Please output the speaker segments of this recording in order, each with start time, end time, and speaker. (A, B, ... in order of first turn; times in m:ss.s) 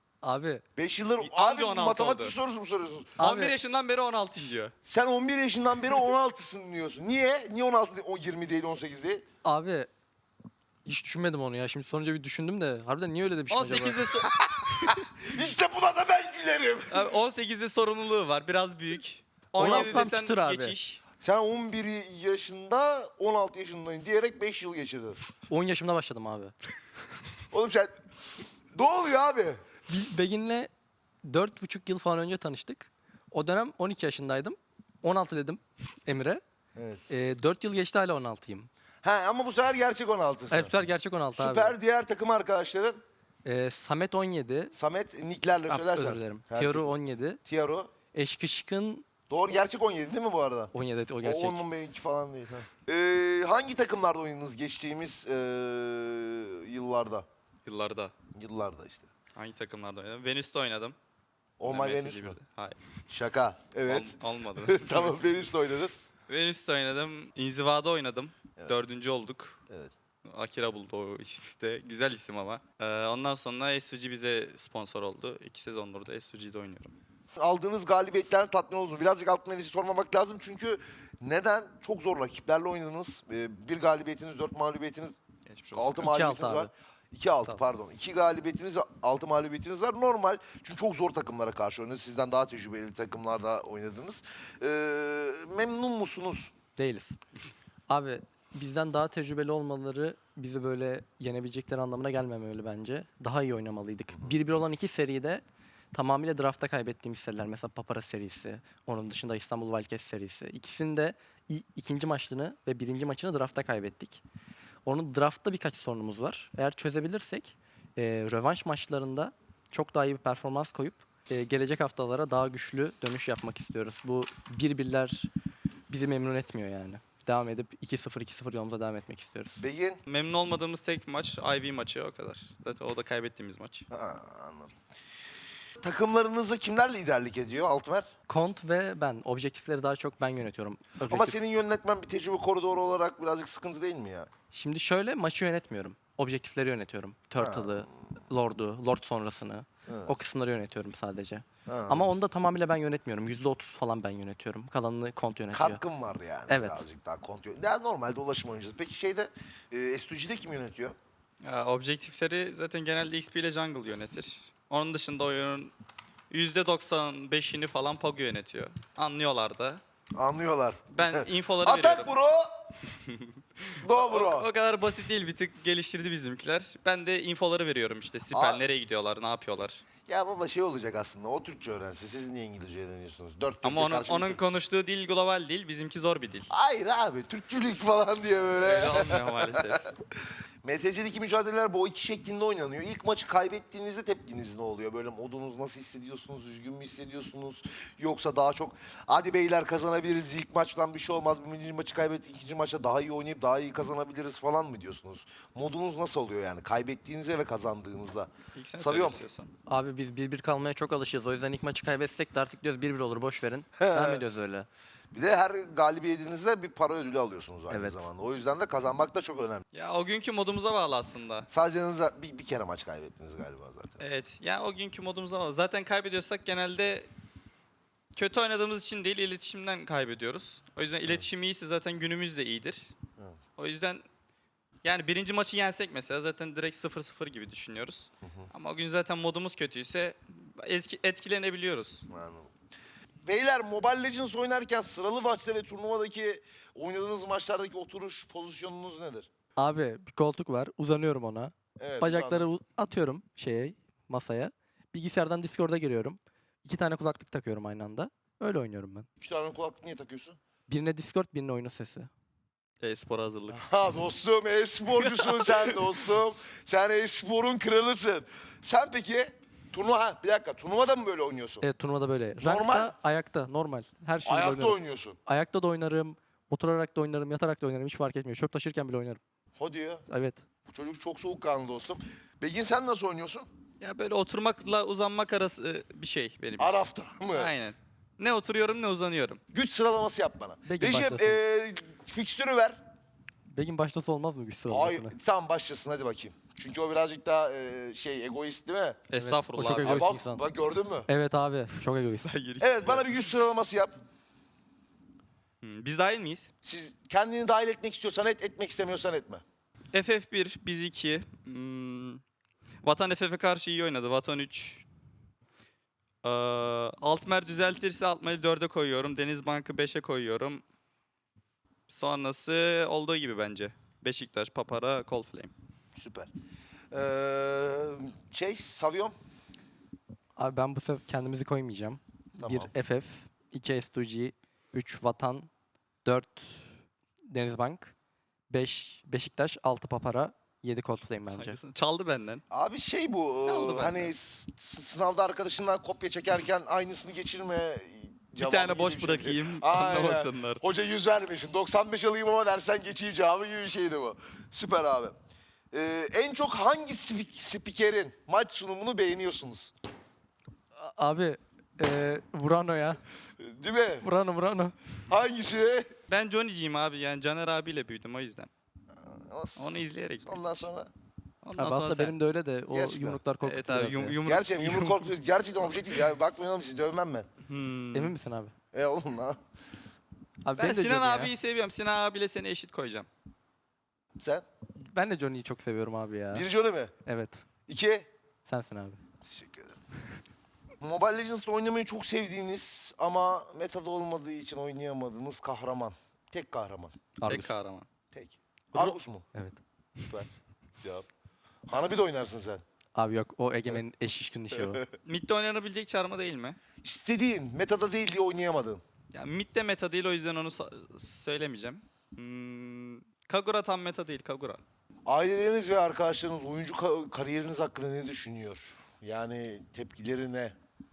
0:00.2-0:00.6 A
0:00.8-0:03.2 B
0:01.2-0:02.4 C
0:03.2-0:03.6 A
0:03.2-0:04.7 C
0:04.8-0:09.2 B
0:09.4-0:09.9 A
0:10.8-0:14.0 A
0:13.5-0:15.4 C
0:14.3-0:17.1 B
0:16.9-0:21.0 C
0:19.6-0:20.1 B
0:19.6-0:20.8 A
0:21.2-0:25.2 B
0:25.5-0:26.6 A
0:27.5-0:27.9 B
0:28.7-0:29.6 B
0:29.9-0:30.7 A
0:31.2-0:36.4 A
0:36.8-0:37.0 B
0:37.1-0:38.7 A
0:39.0-0:40.8 B
0:40.5-0:41.8 A
0:41.4-0:43.0 B
0:43.4-0:44.7 A
0:44.7-0:47.9 B
0:45.7-0:47.4 A
0:48.1-0:49.0 A
0:49.3-0:57.2 B
0:50.7-0:51.6 A
0:57.6-0:58.1 C
0:58.3-0:59.1 B
0:59.4-1:01.0 C
1:01.6-1:02.4 B
1:01.7-1:02.8 C
1:03.1-1:05.9 B
1:03.9-1:05.2 C
1:06.3-1:09.6 C
1:10.2-1:17.0 C
1:17.4-1:25.2 B
1:25.5-1:26.1 C
1:25.7-1:36.5 B
1:26.0-1:26.7 A
1:36.8-1:37.2 A
1:37.9-1:54.2 A
1:54.8-2:05.3 A
2:05.9-2:09.6 A
2:09.6-2:10.0 B
2:10.1-2:13.9 C
2:13.9-2:14.8 B
2:15.8-2:18.1 B
2:18.3-2:21.4 A
2:21.1-2:24.3 B
2:24.5-2:35.8 A
2:27.4-2:27.9 B
2:29.9-2:30.1 B
2:31.7-2:32.1 B
2:35.5-2:41.0 B
2:36.5-2:36.8 A
2:41.4-2:45.7 C
2:46.3-2:49.8 C
2:50.2-2:52.5 B
2:50.9-2:52.1 C
2:53.1-2:59.8 C
2:53.8-2:54.5 B
2:58.3-2:58.6 B
3:00.0-3:04.4 B
3:03.6-3:06.5 C
3:06.5-3:09.9 B
3:08.6-3:09.9 C
3:10.6-3:29.2 B
3:28.6-3:29.5 C
3:29.7-3:34.7 A
3:33.8-3:34.2 B
3:35.1-3:39.6 B
3:37.7-3:38.1 A
3:39.7-3:41.5 C
3:41.5-3:44.0 B
3:44.0-3:47.1 C
3:48.2-3:52.9 C
3:53.6-3:54.0 C
3:54.8-4:02.0 C
3:58.2-3:58.5 B
4:02.1-4:02.5 B
4:03.2-4:09.3 B
4:09.6-4:19.1 A
4:11.8-4:12.5 B
4:19.2-4:20.4 B
4:20.7-4:22.1 A
4:22.8-4:23.6 C
4:23.5-4:31.6 B
4:25.1-4:25.8 C
4:31.6-4:39.2 A
4:32.4-4:32.9 B
4:34.2-4:35.2 B
4:39.6-4:40.0 B
4:40.1-4:40.4 A
4:40.6-4:43.5 B
4:43.8-4:46.8 C
4:46.6-4:47.5 B
4:47.3-4:49.4 C
4:49.5-4:52.8 B
4:50.6-4:51.4 A
4:53.5-4:55.2 A
4:54.7-4:59.0 B
4:59.1-5:00.1 C
4:59.1-5:00.4 A
4:59.8-5:01.1 B
5:01.1-5:02.3 A
5:02.2-5:03.1 C
5:02.6-5:03.9 B
5:05.6-5:06.5 C
5:06.6-5:09.4 B
5:09.9-5:12.2 C
5:12.8-5:14.8 C
5:16.2-5:20.6 C
5:21.9-5:25.5 C
5:25.9-5:26.3 B
5:26.9-5:29.2 B
5:30.4-5:35.5 A
5:32.4-5:32.7 B
5:36.0-5:36.8 A
5:37.3-5:37.9 A
5:38.5-5:41.6 A
5:41.3-5:42.4 C
5:42.5-5:55.1 B
5:43.5-5:44.1 C
5:48.4-5:50.6 C
5:55.7-5:59.7 B
6:00.8-6:03.0 A
6:03.4-6:04.1 B
6:04.0-6:04.8 A
6:05.1-6:05.9 B
6:06.1-6:08.5 C
6:08.9-6:09.7 B
6:09.6-6:10.5 C
6:10.2-6:10.9 B
6:11.4-6:12.1 C
6:11.6-6:14.2 A
6:12.7-6:13.2 B
6:13.4-6:15.1 C
6:14.2-6:17.3 B
6:17.5-6:18.1 C
6:17.9-6:18.5 A
6:18.7-6:19.4 B
6:20.4-6:21.3 A
6:20.6-6:23.1 C
6:24.2-6:24.4 B
6:24.9-6:26.5 A
6:26.3-6:26.9 B
6:27.0-6:27.4 A
6:27.7-6:28.1 B
6:28.5-6:29.0 A
6:29.2-6:29.8 B
6:30.8-6:37.0 B
6:37.2-6:37.5 A
6:37.3-6:37.9 C
6:38.1-6:39.3 B
6:38.8-6:39.6 A
6:40.0-6:40.3 B
6:40.8-6:41.1 B
6:41.6-6:42.6 B
6:42.9-6:44.8 A
6:44.5-6:44.9 B
6:45.0-6:46.6 C
6:46.8-6:48.8 B
6:49.1-6:54.6 C
6:55.1-7:00.6 B